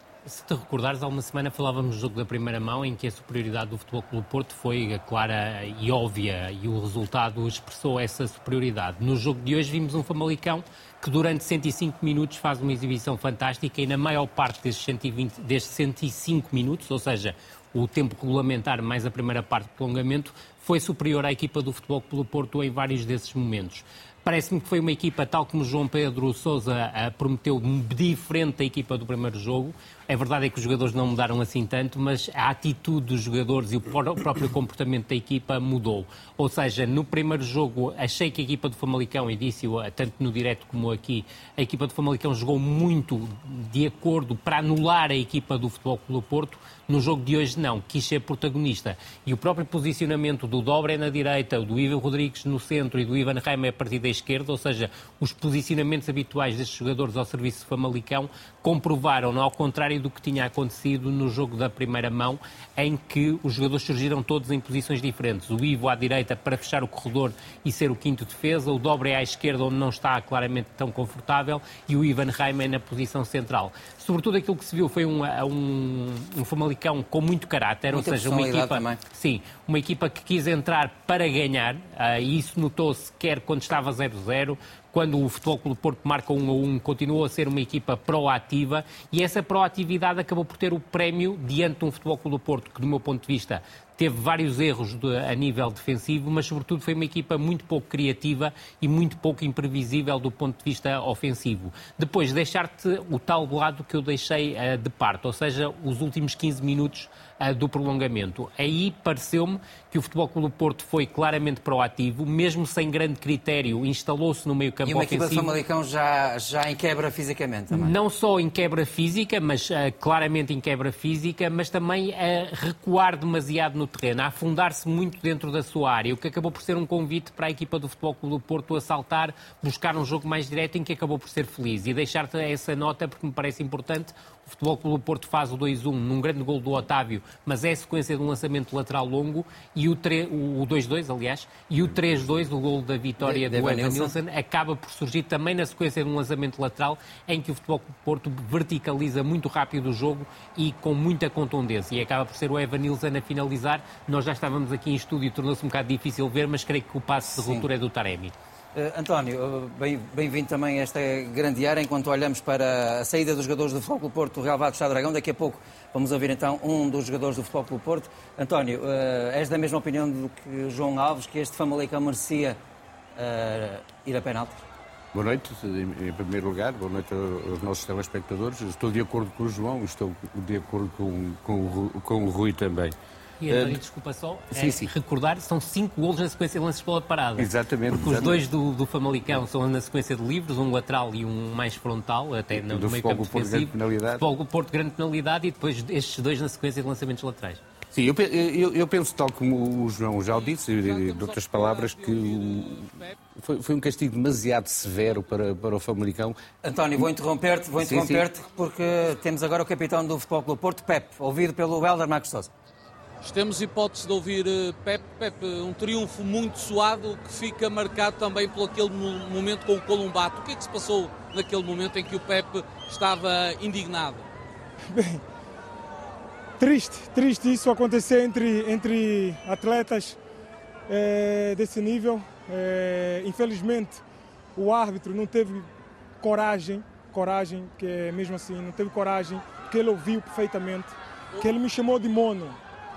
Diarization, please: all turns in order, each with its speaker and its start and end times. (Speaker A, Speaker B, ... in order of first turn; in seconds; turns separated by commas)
Speaker A: 0.3-115.5, Speaker B: 77.9-79.0, Speaker B: 114.8-117.9, Speaker A: 117.7-158.3, Speaker B: 143.2-144.1, Speaker B: 157.3-157.7, Speaker B: 158.7-172.6, Speaker B: 173.2-174.6, Speaker C: 175.1-182.9, Speaker A: 183.4-197.6, Speaker C: 183.5-183.8, Speaker C: 184.5-184.9, Speaker C: 187.4-188.4, Speaker C: 192.5-194.2, Speaker C: 197.9-206.4, Speaker D: 200.9-203.1, Speaker B: 206.6-212.5, Speaker C: 207.8-208.3, Speaker D: 213.2-224.3, Speaker E: 224.9-225.2, Speaker E: 226.6-230.2, Speaker E: 230.9-234.0, Speaker E: 234.6-242.6